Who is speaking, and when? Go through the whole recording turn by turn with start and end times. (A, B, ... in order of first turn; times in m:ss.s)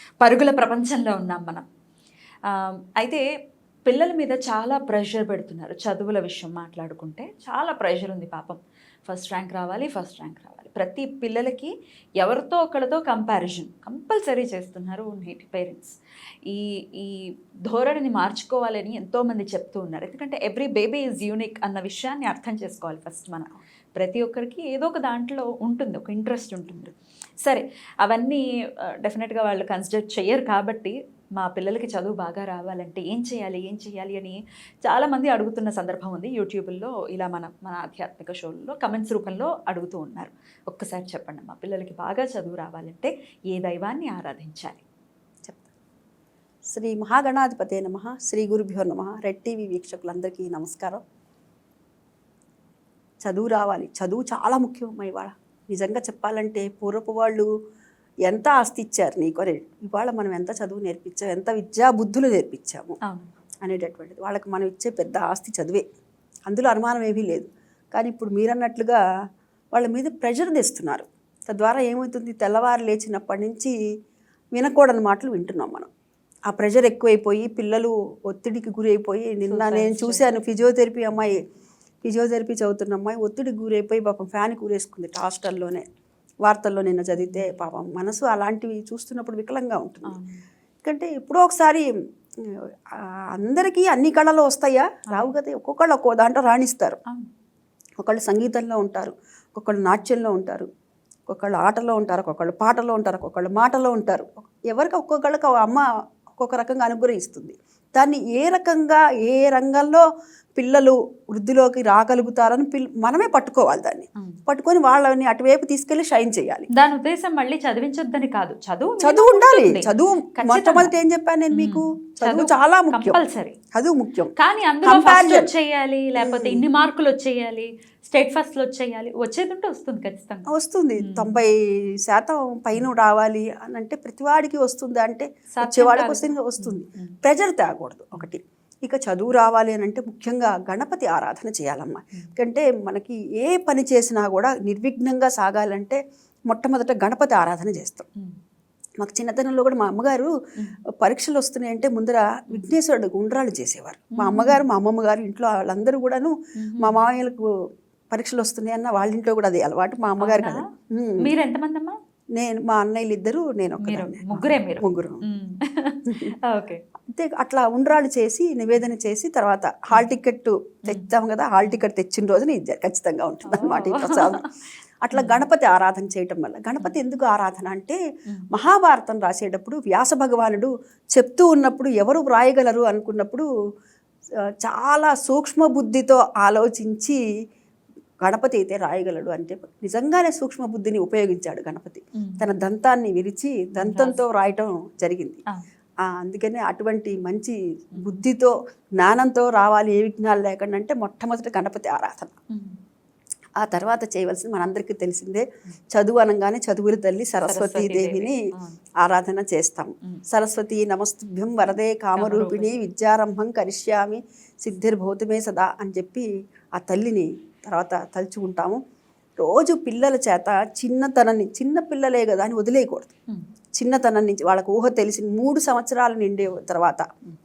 0:00.2-0:01.6 A
0:02.5-0:03.3 A
0:03.9-0:28.4 A
0:29.0-0:44.8 A
0:46.7-0:51.0 B
0:53.2-0:57.5 B
0:58.3-1:03.0 B
1:03.6-1:05.8 B
1:06.5-1:09.0 B
1:09.7-1:13.7 B
1:14.5-1:15.9 B
1:16.5-1:21.4 B
1:19.5-1:20.3 A
1:22.0-1:25.8 B
1:26.4-1:30.2 B
1:27.2-1:27.5 A
1:30.1-1:30.4 A
1:30.8-1:37.0 B
1:38.0-1:40.7 B
1:41.3-1:50.0 B
1:50.6-1:56.7 B
1:56.8-2:01.0 A
1:59.0-2:03.2 B
2:01.5-2:03.6 A
2:03.7-2:04.3 B
2:04.4-2:11.4 A
2:04.8-2:05.5 B
2:06.2-2:06.6 B
2:10.5-2:28.1 B
2:15.6-2:17.2 A
2:29.0-2:30.3 B
2:31.0-2:37.5 B
2:34.2-2:34.6 A
2:36.6-2:37.0 A
2:38.1-2:41.3 B
2:40.2-2:40.6 A
2:41.2-2:42.0 A
2:42.4-2:45.2 B
2:43.8-2:46.8 A
2:46.1-2:46.3 B
2:47.1-2:54.4 B
2:53.5-2:54.5 A
2:55.0-2:58.0 B
2:55.1-2:55.4 A
2:58.5-3:03.5 B
3:04.6-3:07.2 B
3:08.2-3:15.4 B
3:12.2-3:12.4 A
3:13.8-3:14.2 A
3:16.0-3:22.4 B
3:18.0-3:18.2 A
3:22.5-3:22.8 A
3:23.6-3:28.4 B
3:27.4-3:28.8 A
3:29.0-3:38.8 B
3:32.2-3:32.8 A
3:39.4-3:43.1 B
3:43.8-3:47.1 B